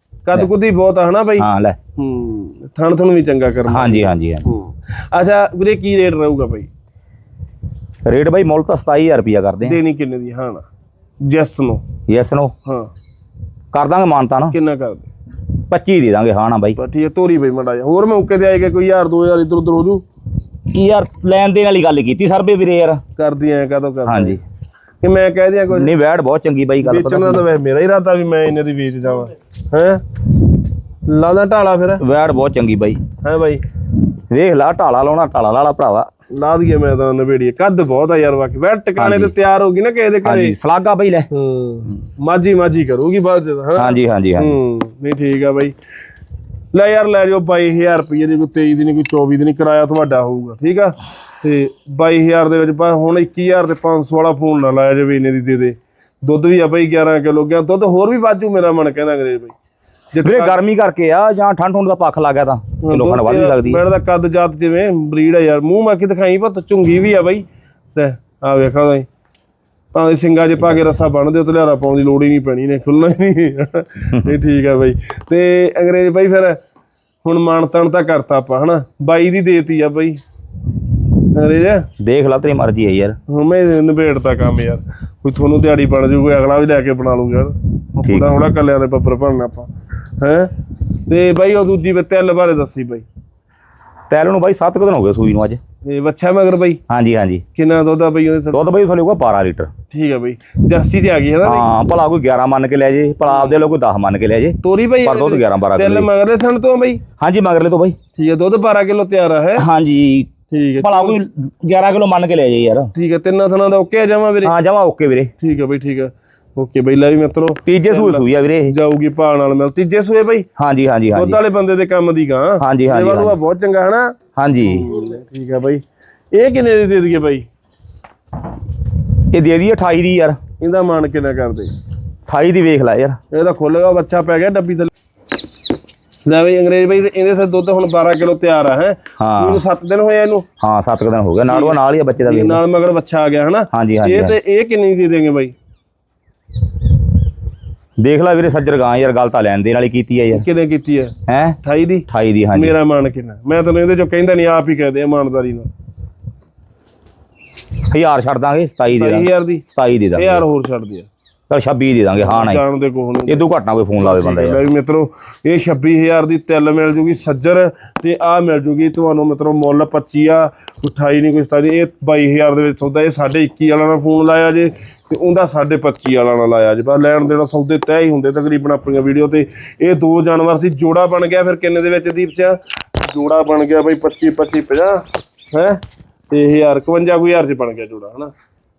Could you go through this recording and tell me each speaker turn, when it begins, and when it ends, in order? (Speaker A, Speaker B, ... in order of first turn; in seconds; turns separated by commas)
Speaker A: 0.2-6.7, Speaker B: 1.4-1.8, Speaker B: 3.7-4.4, Speaker B: 8.0-9.8, Speaker A: 9.6-10.7, Speaker A: 11.2-11.8, Speaker B: 12.1-12.5, Speaker A: 12.6-12.9, Speaker B: 13.7-14.5, Speaker A: 14.5-15.1, Speaker B: 15.5-16.8, Speaker A: 16.8-20.0, Speaker B: 20.7-23.0, Speaker A: 23.2-24.4, Speaker B: 24.1-24.4, Speaker A: 25.0-25.9, Speaker B: 25.7-27.4, Speaker A: 26.8-30.0, Speaker A: 31.0-32.0, Speaker B: 32.0-33.0, Speaker A: 33.2-33.6, Speaker B: 34.0-36.1, Speaker A: 36.3-40.5, Speaker B: 39.0-39.3, Speaker B: 40.2-41.3, Speaker A: 41.3-45.7, Speaker B: 43.8-44.6, Speaker A: 46.7-59.5, Speaker A: 60.1-60.6, Speaker B: 60.2-63.8, Speaker A: 62.8-69.1, Speaker A: 69.9-76.6, Speaker A: 77.2-80.2, Speaker A: 81.3-81.9, Speaker B: 82.0-83.2, Speaker A: 83.3-90.5, Speaker B: 88.0-88.3, Speaker A: 91.1-93.0, Speaker B: 94.1-95.6, Speaker A: 95.8-96.8, Speaker B: 96.9-97.4, Speaker A: 97.5-98.6, Speaker B: 98.5-99.7, Speaker A: 99.9-101.7, Speaker B: 101.4-106.1, Speaker A: 103.2-103.6, Speaker A: 104.6-107.0, Speaker B: 107.2-108.0, Speaker A: 108.1-109.6, Speaker B: 109.6-110.3, Speaker A: 110.5-111.2, Speaker B: 110.8-112.9, Speaker A: 112.9-114.5, Speaker B: 114.4-115.3, Speaker A: 115.4-120.5, Speaker B: 117.7-118.7, Speaker B: 120.6-121.4, Speaker A: 121.1-127.5, Speaker B: 122.6-123.4, Speaker B: 124.4-124.9, Speaker B: 129.2-130.4, Speaker A: 130.6-131.7, Speaker B: 132.3-133.2, Speaker A: 133.3-134.9, Speaker A: 136.2-140.5, Speaker B: 139.2-139.6, Speaker B: 140.6-142.6, Speaker A: 141.5-145.5, Speaker B: 143.7-144.3, Speaker B: 148.0-150.4, Speaker A: 150.3-155.7, Speaker B: 151.3-151.6, Speaker B: 152.1-152.7, Speaker B: 157.8-160.4, Speaker A: 158.9-159.6, Speaker A: 160.1-161.1, Speaker B: 161.5-162.6, Speaker A: 162.2-163.4, Speaker B: 163.3-164.6, Speaker A: 164.0-188.3